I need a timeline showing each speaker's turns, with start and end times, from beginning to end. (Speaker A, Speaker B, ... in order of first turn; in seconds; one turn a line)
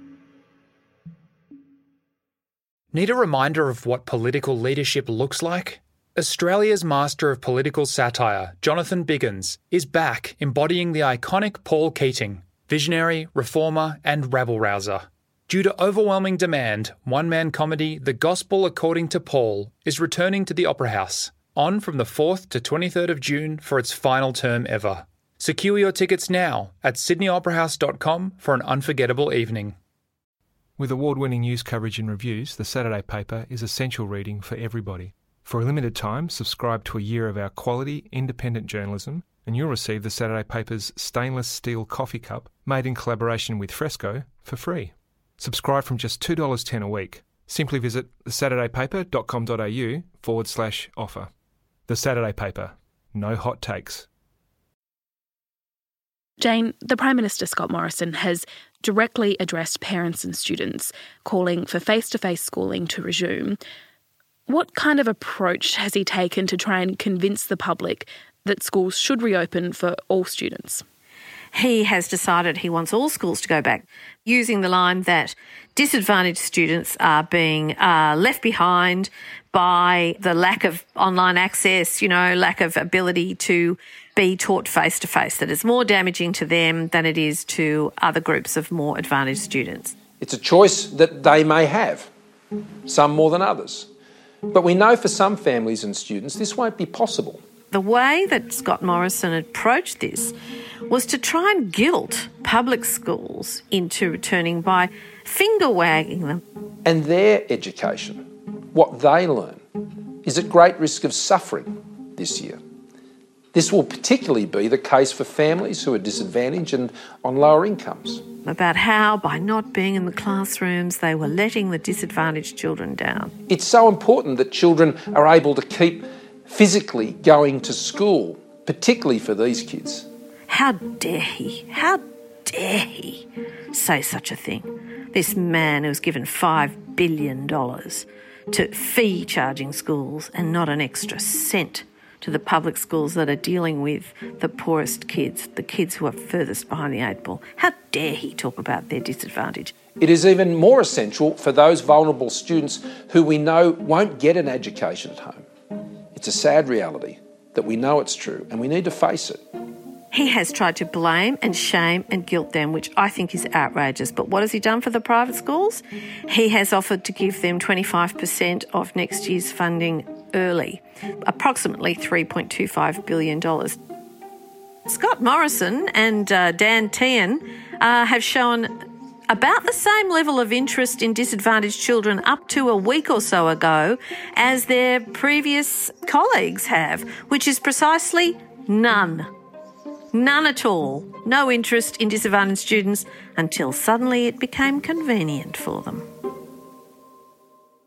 Speaker A: 2.9-29.8
Speaker B: 30.8-51.3
Speaker B: 51.9-54.1
Speaker C: 56.4-63.6
Speaker C: 64.5-70.8
Speaker D: 71.5-90.0
Speaker E: 90.2-92.1
Speaker E: 92.9-93.9
Speaker E: 94.5-97.4
Speaker D: 97.7-100.3
Speaker D: 100.9-106.4
Speaker E: 106.8-109.6
Speaker E: 110.2-112.6
Speaker E: 113.5-118.2
Speaker D: 118.4-123.3
Speaker E: 123.5-130.1
Speaker D: 130.5-149.7
Speaker E: 150.0-155.4
Speaker E: 156.2-159.4
Speaker D: 160.1-173.8
Speaker D: 174.9-178.7
Speaker D: 179.3-189.3
Speaker D: 190.1-196.1